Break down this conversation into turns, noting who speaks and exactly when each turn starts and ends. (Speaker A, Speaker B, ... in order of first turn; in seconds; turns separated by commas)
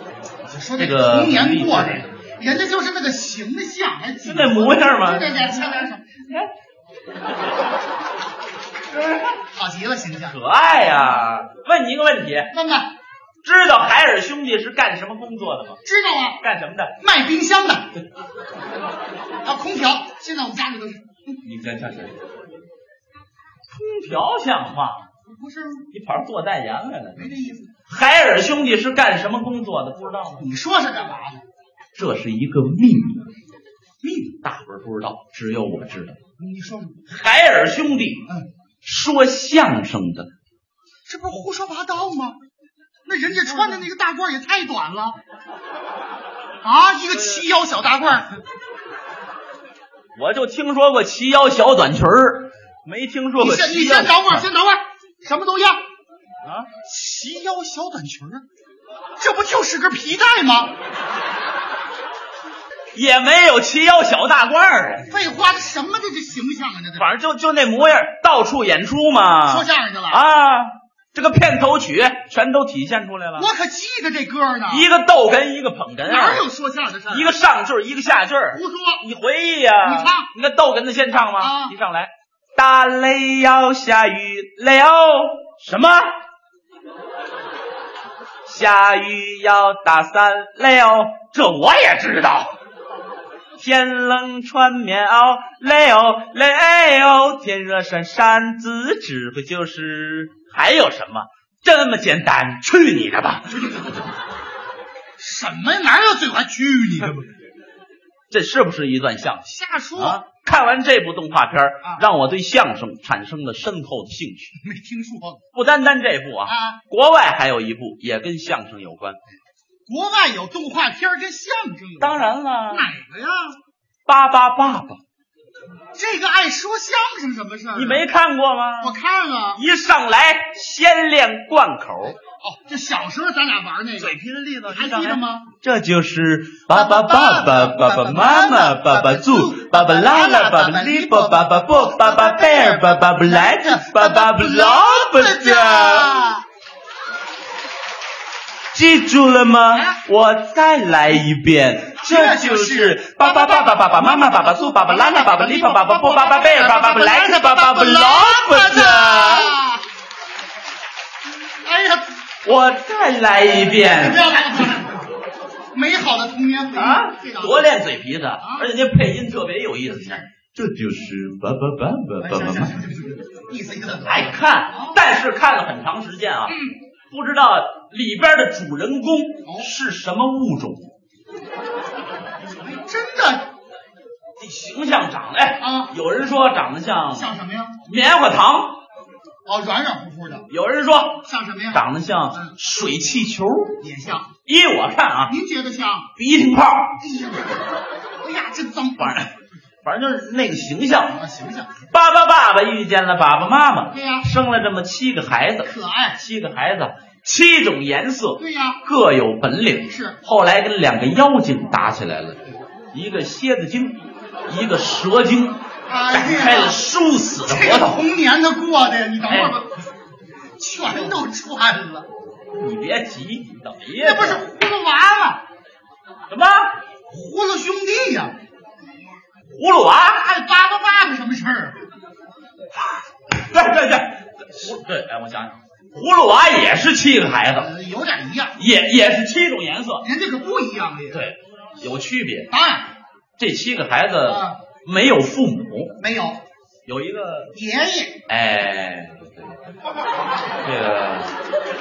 Speaker A: 0.5-6.2, Speaker B: 0.8-2.1, Speaker B: 4.2-5.6, Speaker A: 9.5-10.4, Speaker B: 10.3-12.5, Speaker A: 12.5-12.9, Speaker B: 13.4-15.8, Speaker A: 15.8-16.4, Speaker B: 16.4-17.0, Speaker A: 17.0-17.9, Speaker A: 19.4-21.4, Speaker B: 21.4-22.1, Speaker B: 23.7-25.1, Speaker A: 25.2-25.9, Speaker B: 25.9-27.3, Speaker A: 27.1-27.7, Speaker B: 27.9-30.5, Speaker A: 30.4-31.4, Speaker B: 31.9-33.3, Speaker B: 34.2-36.2, Speaker A: 36.4-37.0, Speaker B: 37.1-38.3, Speaker B: 38.8-40.3, Speaker A: 41.0-42.4, Speaker A: 43.0-45.2, Speaker B: 43.4-43.8, Speaker A: 46.6-48.3, Speaker B: 50.1-54.5, Speaker A: 53.4-55.8, Speaker B: 56.4-56.7, Speaker A: 56.8-58.4, Speaker A: 59.2-60.7, Speaker B: 62.9-65.1, Speaker A: 65.1-67.1, Speaker B: 67.0-73.5, Speaker A: 69.5-70.2, Speaker A: 73.3-74.9, Speaker B: 74.7-76.5, Speaker A: 76.0-77.3, Speaker B: 77.1-86.1, Speaker A: 78.5-79.0, Speaker A: 79.8-80.3, Speaker A: 81.4-81.7, Speaker B: 88.5-92.5, Speaker B: 93.6-103.8, Speaker A: 105.2-107.3, Speaker B: 108.3-114.5, Speaker A: 109.4-110.2, Speaker A: 114.6-115.4, Speaker B: 115.5-119.2, Speaker A: 116.5-116.8, Speaker A: 119.9-123.6, Speaker B: 122.0-122.9, Speaker B: 124.1-125.0, Speaker A: 125.9-128.0, Speaker B: 127.7-128.9, Speaker A: 128.8-129.6, Speaker B: 129.5-132.2, Speaker A: 132.4-135.5, Speaker B: 134.0-146.3, Speaker A: 136.7-146.4, Speaker B: 148.7-159.5, Speaker A: 152.0-159.8, Speaker A: 161.6-162.2, Speaker B: 162.4-164.3, Speaker A: 163.5-165.1, Speaker A: 165.7-167.7, Speaker B: 166.7-172.7, Speaker A: 168.4-168.7, Speaker A: 170.0-170.2, Speaker A: 172.2-175.0, Speaker B: 174.0-176.6, Speaker A: 176.5-176.7, Speaker B: 177.1-180.9, Speaker A: 179.4-179.7, Speaker A: 182.5-183.5, Speaker B: 184.4-187.3, Speaker A: 185.6-185.9, Speaker A: 187.1-187.8, Speaker B: 187.8-188.8, Speaker A: 189.4-190.4, Speaker B: 190.5-193.8, Speaker A: 191.2-192.5, Speaker A: 193.8-194.3, Speaker B: 194.4-195.3, Speaker A: 195.3-196.1, Speaker B: 196.2-197.0, Speaker A: 197.0-197.6, Speaker A: 198.2-199.3, Speaker B: 199.0-199.3, Speaker B: 199.8-201.2, Speaker A: 200.9-201.9, Speaker B: 201.9-212.4, Speaker A: 203.9-204.3, Speaker A: 205.6-206.2, Speaker A: 208.4-208.8, Speaker A: 209.9-210.2, Speaker B: 212.9-215.6, Speaker A: 215.9-216.8, Speaker B: 216.1-218.0, Speaker A: 217.4-219.7, Speaker B: 219.3-219.6, Speaker A: 220.6-222.1, Speaker B: 222.6-224.4, Speaker A: 223.9-225.4, Speaker B: 226.3-226.7, Speaker A: 227.1-228.3, Speaker B: 229.5-230.2, Speaker A: 230.2-231.8, Speaker B: 232.7-237.7, Speaker A: 237.6-238.6, Speaker B: 238.6-240.0, Speaker A: 240.0-241.2, Speaker B: 241.1-242.5, Speaker A: 242.5-242.9, Speaker B: 243.4-246.0, Speaker A: 244.2-244.6, Speaker A: 246.0-246.4, Speaker B: 246.9-247.5, Speaker A: 247.5-248.2, Speaker B: 248.3-249.5, Speaker B: 250.6-251.3